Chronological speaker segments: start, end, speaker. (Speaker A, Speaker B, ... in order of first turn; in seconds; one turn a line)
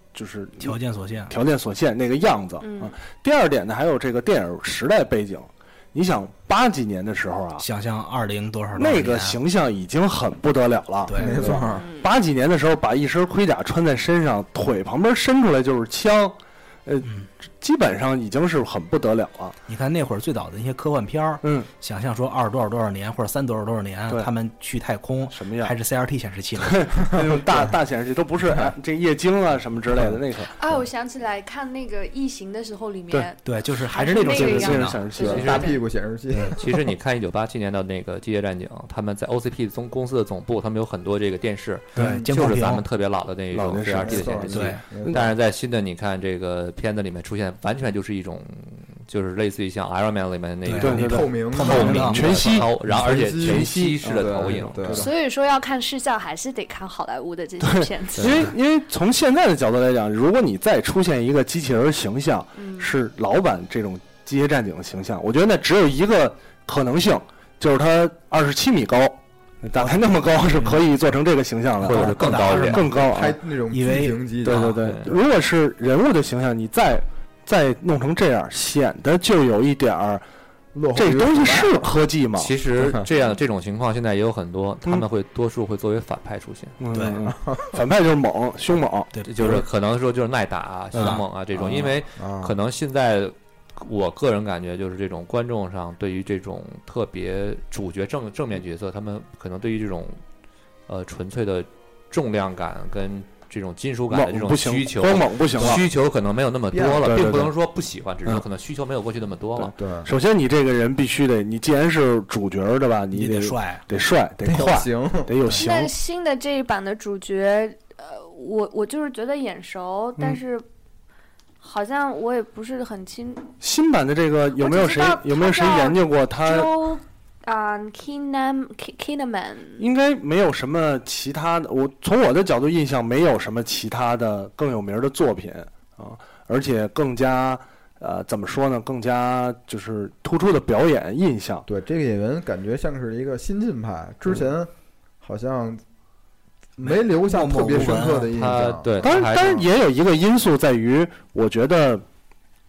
Speaker A: 0.1-0.8
Speaker B: 0.6-1.4
Speaker A: 1.3-7.7
Speaker C: 2.6-3.0
Speaker B: 7.6-9.4
Speaker A: 8.8-19.6
Speaker B: 11.1-11.7
Speaker D: 11.2-11.8
Speaker C: 11.4-12.1
Speaker B: 19.7-27.1
Speaker A: 21.4-21.7
Speaker A: 25.3-25.8
Speaker A: 26.6-30.5
Speaker C: 30.5-35.8
Speaker B: 33.4-35.1
Speaker A: 34.3-35.7
Speaker D: 35.2-36.6
Speaker E: 35.3-35.7
Speaker E: 36.6-55.1
Speaker B: 42.0-42.9
Speaker D: 42.0-42.3
Speaker A: 43.5-45.3
Speaker D: 44.0-45.2
Speaker B: 44.5-44.8
Speaker B: 50.7-52.5
Speaker A: 50.8-52.7
Speaker D: 50.9-55.1
Speaker A: 53.4-55.1
Speaker C: 54.9-58.5
Speaker A: 57.6-73.4
Speaker C: 62.6-63.0
Speaker B: 70.5-70.8
Speaker E: 71.8-72.9
Speaker B: 71.8-72.9
Speaker D: 72.9-74.8
Speaker B: 73.7-74.2
Speaker A: 74.4-80.2
Speaker E: 74.5-75.2
Speaker D: 80.7-81.9
Speaker A: 81.0-82.5
Speaker E: 82.4-86.8
Speaker D: 82.8-83.1
Speaker A: 86.8-89.6
Speaker B: 86.9-87.2
Speaker D: 87.3-87.8
Speaker E: 89.3-100.2
Speaker A: 91.0-91.9
Speaker B: 91.0-91.2
Speaker D: 92.2-92.5
Speaker E: 100.9-109.7
Speaker A: 104.1-105.8
Speaker D: 106.7-107.1
Speaker A: 107.0-107.5
Speaker A: 109.6-115.9
Speaker D: 109.8-110.1
Speaker B: 113.1-113.9
Speaker D: 114.5-115.3
Speaker C: 115.5-120.6
Speaker C: 121.6-123.5
Speaker A: 123.6-126.7
Speaker C: 124.6-129.9
Speaker A: 129.8-141.7
Speaker D: 141.7-145.8
Speaker D: 146.8-149.1
Speaker B: 146.8-148.4
Speaker E: 148.3-149.7
Speaker A: 149.0-152.0